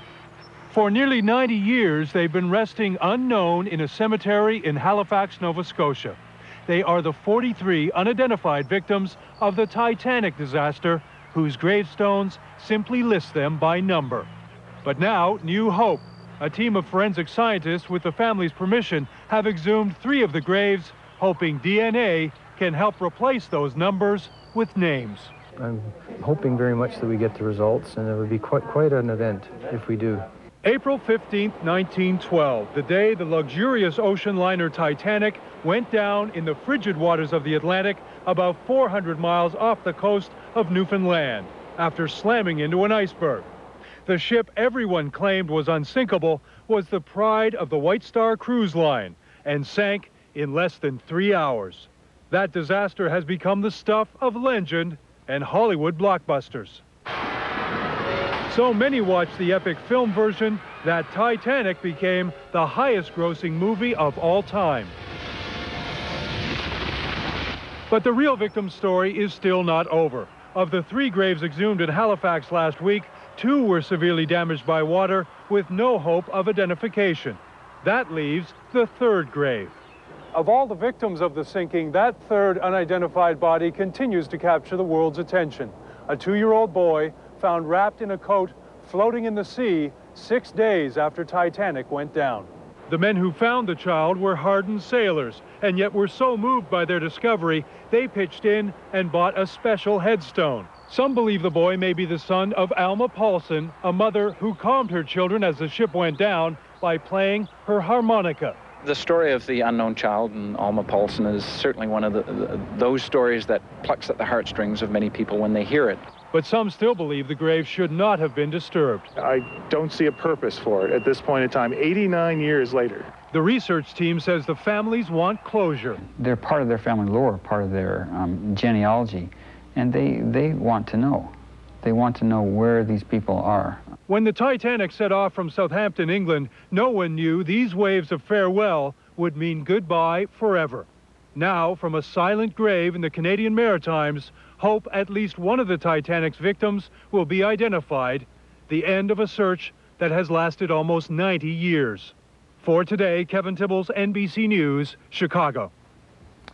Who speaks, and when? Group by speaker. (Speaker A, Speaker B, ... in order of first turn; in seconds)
Speaker A: 0.7-14.3, 14.8-25.3, 30.6-43.5, 44.0-56.8, 58.5-64.9, 67.9-79.8, 80.3-108.6, 116.3-119.1, 123.3-126.0, 134.1-155.7
Speaker B: 25.6-30.2
Speaker C: 108.8-116.0
Speaker D: 119.2-123.1
Speaker E: 126.2-133.8